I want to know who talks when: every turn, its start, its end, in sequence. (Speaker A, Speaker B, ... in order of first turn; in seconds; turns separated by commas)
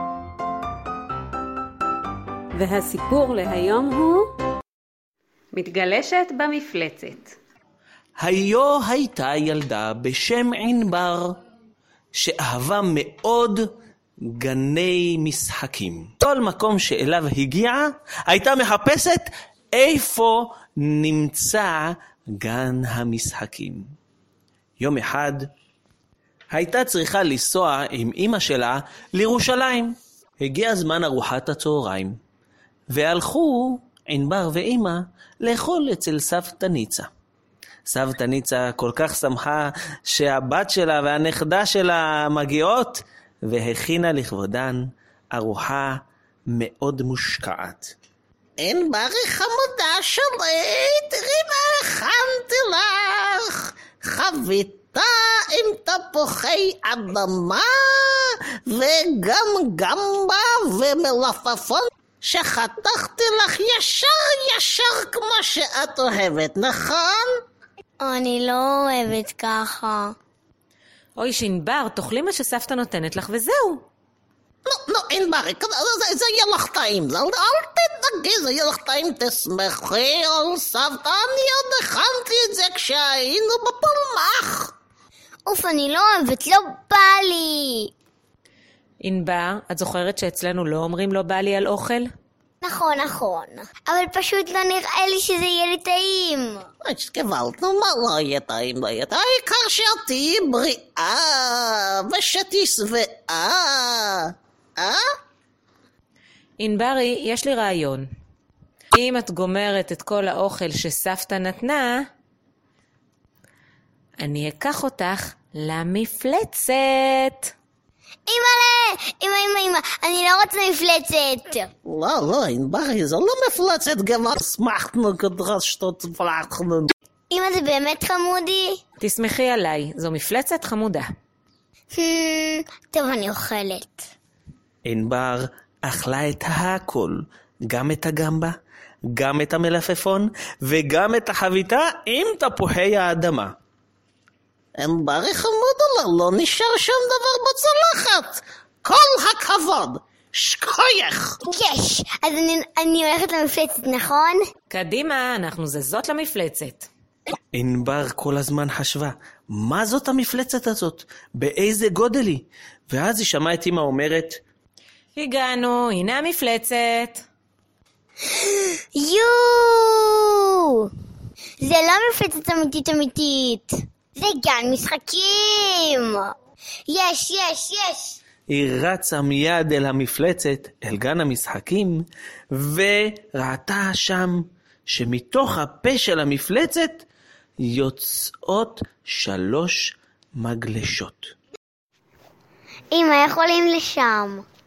Speaker A: 2.5-4.3, Speaker A: 5.5-6.6, Speaker B: 6.0-7.2, Speaker C: 8.2-11.4, Speaker C: 12.1-13.7, Speaker C: 14.3-23.9, Speaker C: 24.8-25.5, Speaker C: 26.5-32.2, Speaker C: 32.9-37.1, Speaker C: 37.9-47.9, Speaker D: 48.6-67.4, Speaker B: 68.0-70.1, Speaker E: 71.2-73.8, Speaker D: 74.7-84.7, Speaker B: 85.5-87.9, Speaker E: 89.0-92.1, Speaker B: 92.6-96.7, Speaker D: 96.8-105.0, Speaker E: 106.6-108.1, Speaker E: 108.9-112.1, Speaker E: 114.2-117.5, Speaker B: 118.3-121.7, Speaker D: 121.8-126.9, Speaker B: 127.3-128.8, Speaker E: 129.0-131.1, Speaker B: 131.9-134.1, Speaker C: 134.8-138.6, Speaker C: 139.1-143.5, Speaker D: 144.8-151.4, Speaker B: 151.4-154.4, Speaker E: 154.7-156.9, Speaker C: 157.5-164.4, Speaker E: 165.2-167.2, Speaker B: 168.3-170.9, Speaker B: 171.6-176.3, Speaker B: 176.9-178.2, Speaker C: 178.5-187.1, Speaker C: 187.6-191.3, Speaker B: 192.9-194.4